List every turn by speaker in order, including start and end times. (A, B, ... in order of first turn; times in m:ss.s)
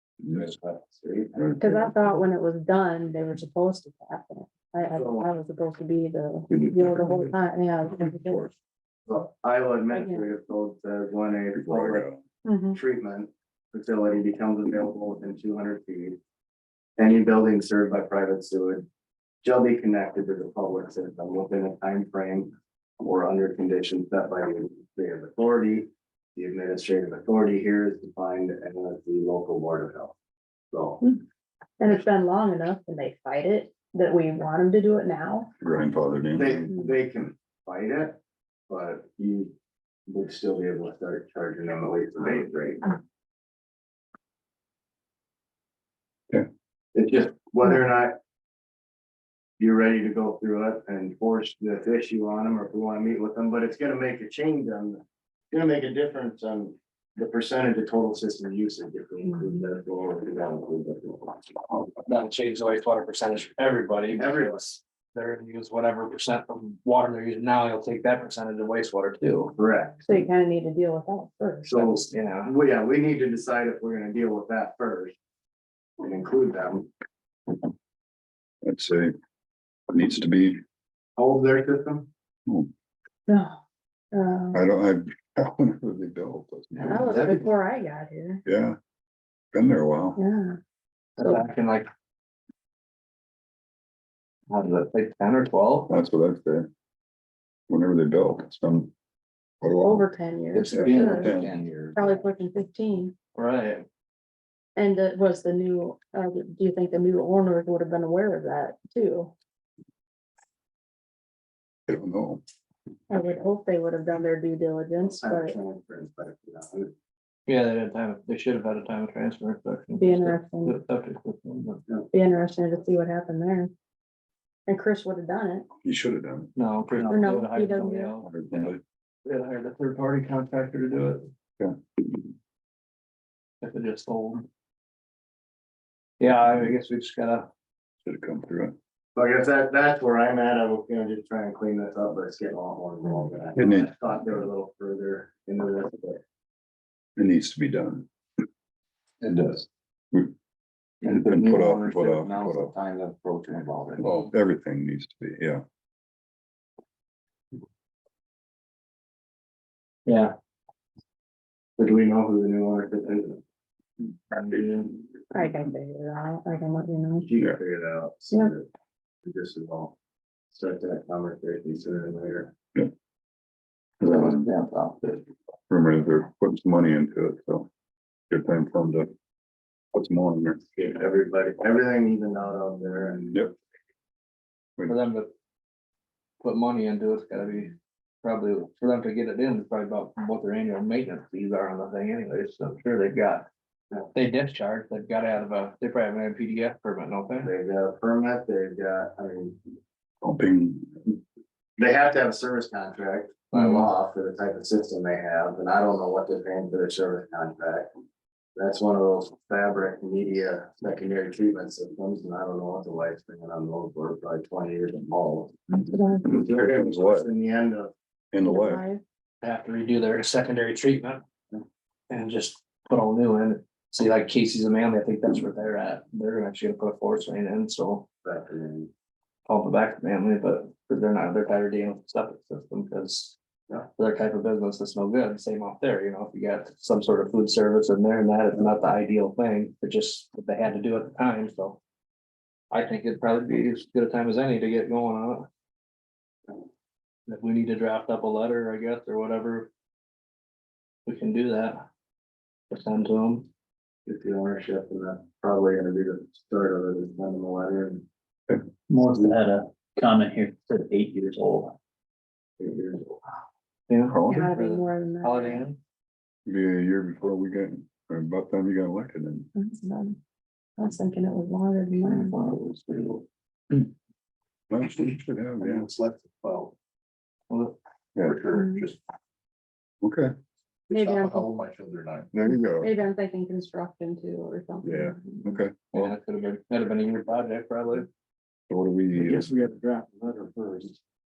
0:00.2-0:00.5 A
0:00.3-0:01.7 B
0:01.3-0:01.9 A
0:01.6-0:08.5 C
0:04.9-0:05.3 B
0:06.5-0:07.3 A
0:08.0-0:08.5 A
0:09.1-0:12.0 B
0:09.9-0:10.2 C
0:11.5-0:12.2 A
0:12.4-0:12.8 C
0:12.7-0:16.2 B
0:17.0-0:18.8 B
0:19.4-0:30.1 B
0:30.7-0:31.0 B
0:31.8-0:35.5 C
0:35.6-0:36.7 A
0:36.4-0:38.2 B
0:38.7-0:39.5 B
0:40.1-0:43.0 B
0:46.9-0:48.2 B
0:49.6-1:01.6 B
1:02.0-1:09.5 D
1:04.1-1:04.6 B
1:09.6-1:10.1 B
1:10.1-1:11.7 C
1:11.6-1:15.2 B
1:11.7-1:12.5 D
1:16.0-1:16.9 B
1:18.6-1:19.1 A
1:19.9-1:20.6 A
1:21.2-1:22.1 B
1:23.3-1:23.6 C
1:24.1-1:24.6 C
1:24.5-1:27.2 A
1:26.7-1:27.5 B
1:26.8-1:28.4 C
1:28.4-1:28.8 A
1:29.5-1:30.2 A
1:30.2-1:30.6 C
1:31.2-1:31.9 D
1:34.5-1:35.9 D
1:35.9-1:36.7 A
1:37.7-1:38.9 A
1:39.6-1:40.1 A
1:39.8-1:41.4 C
1:40.6-1:42.1 E
1:40.6-1:41.4 D
1:40.7-1:41.5 A
1:41.9-1:43.1 C
1:43.3-1:43.8 D
1:44.8-1:49.3 C
1:51.9-1:52.4 A
1:53.1-1:55.6 C
1:55.0-1:56.9 B
1:57.5-2:01.8 D
2:00.0-2:00.8 C
2:02.1-2:03.7 C
2:04.6-2:05.7 C
2:05.8-2:06.5 A
2:06.6-2:08.4 D
2:07.0-2:08.1 C
2:08.2-2:08.8 A
2:09.2-2:11.3 D
2:13.6-2:14.4 D
2:16.2-2:17.5 D
2:18.0-2:18.7 A
2:19.1-2:26.2 B
2:23.5-2:24.5 A
2:27.2-2:28.1 A
2:31.0-2:32.7 A
2:31.0-2:34.0 B
2:31.1-2:31.5 E
2:32.3-2:32.7 E
2:34.0-2:35.6 A
2:40.0-2:40.3 D
2:41.8-2:43.4 B
2:44.4-2:45.0 B
2:45.3-2:47.3 C
2:47.2-2:48.6 B
2:49.2-2:49.9 B
2:50.5-2:52.5 B
2:54.0-2:54.5 A
2:54.5-2:54.9 E
2:55.7-2:57.7 A
2:58.3-2:59.1 A
2:59.9-3:00.6 A
3:00.8-3:03.4 B
3:04.9-3:05.3 D
3:06.4-3:13.4 D
3:14.1-3:17.5 D
3:17.4-3:19.6 B
3:20.2-3:21.1 A
3:21.8-3:27.9 B
3:23.5-3:23.9 D
3:28.6-3:37.9 B
3:35.8-3:36.3 C
3:36.3-3:37.3 A
3:38.3-3:38.8 A
3:38.4-3:39.0 C
3:39.4-3:41.2 D
3:42.1-3:48.0 D
3:48.2-3:48.9 B
3:49.4-3:53.3 D
3:54.0-4:01.8 D
4:02.7-4:05.5 D
4:07.3-4:09.7 D
4:11.0-4:11.8 D
4:12.7-4:13.5 D
4:14.0-4:18.0 B
4:18.9-4:21.8 F
4:22.6-4:23.2 B
4:23.9-4:25.8 D
4:24.1-4:24.5 A
4:24.2-4:25.7 C
4:26.4-4:29.5 A
4:29.5-4:30.2 C
4:30.8-4:32.3 C
4:32.0-4:33.2 D
4:34.7-4:35.9 A
4:35.6-4:36.7 E
4:37.5-4:37.7 D
4:38.2-4:39.0 E
4:38.5-4:38.9 C
4:40.0-4:40.3 A
4:40.9-4:41.5 C
4:40.9-4:42.3 E
4:42.3-4:42.9 A
4:42.7-4:45.6 C
4:44.8-4:46.1 A
4:45.9-4:48.1 D
4:48.7-4:49.5 A
4:49.1-4:50.9 E